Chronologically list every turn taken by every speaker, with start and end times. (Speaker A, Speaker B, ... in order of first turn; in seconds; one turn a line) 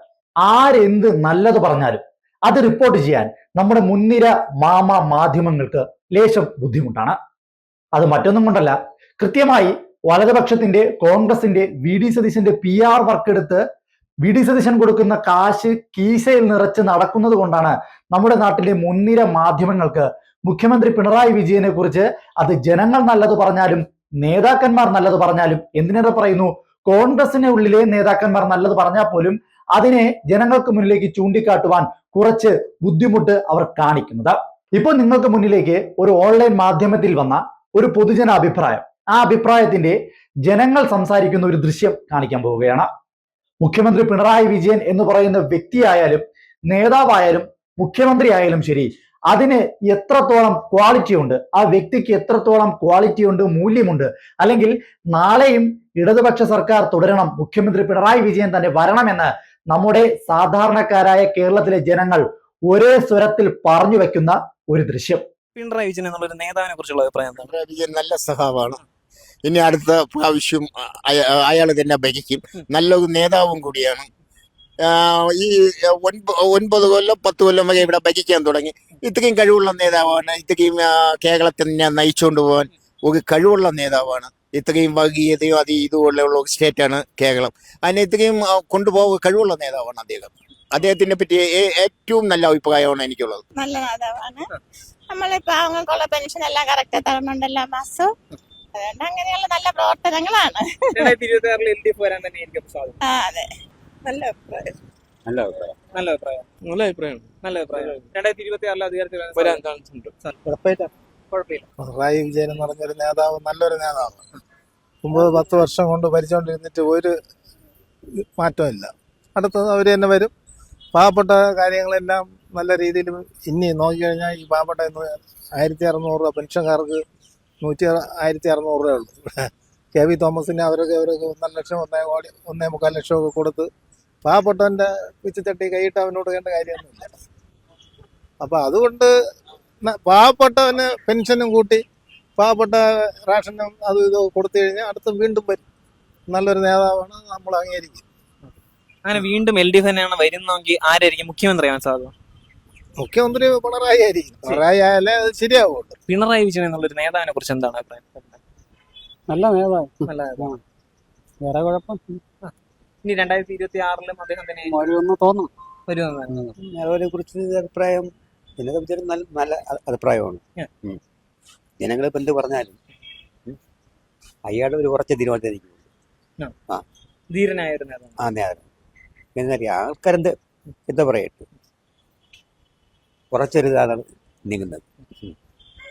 Speaker A: 0.4-7.2
Speaker A: 8.0-13.6
Speaker A: 14.2-42.9
Speaker A: 43.6-65.2
Speaker B: 65.5-67.5
Speaker C: 67.3-68.8
Speaker C: 69.4-74.1
Speaker C: 74.8-93.4
Speaker D: 93.5-94.5
Speaker D: 95.1-98.1
Speaker D: 98.7-101.1
Speaker B: 100.9-103.0
Speaker D: 103.0-103.5
Speaker D: 104.0-104.4
Speaker B: 104.4-104.8
Speaker E: 105.2-105.7
Speaker B: 105.9-106.5
Speaker B: 107.4-109.7
Speaker B: 111.3-111.6
Speaker F: 111.8-114.2
Speaker F: 115.0-117.1
Speaker F: 118.4-120.3
Speaker F: 120.9-127.0
Speaker F: 127.6-133.7
Speaker F: 134.2-137.1
Speaker F: 138.4-139.1
Speaker F: 139.8-141.8
Speaker F: 142.4-145.6
Speaker F: 146.3-148.0
Speaker B: 149.0-152.1
Speaker F: 153.0-155.9
Speaker B: 156.1-158.4
Speaker G: 159.3-160.6
Speaker B: 160.1-160.5
Speaker G: 161.4-162.2
Speaker B: 163.0-164.8
Speaker G: 164.7-165.5
Speaker B: 165.9-166.4
Speaker E: 166.6-171.0
Speaker E: 171.8-172.8
Speaker E: 174.4-175.9
Speaker B: 177.3-178.2
Speaker E: 178.2-178.6
Speaker E: 179.3-180.3
Speaker E: 180.9-181.5
Speaker E: 183.3-185.3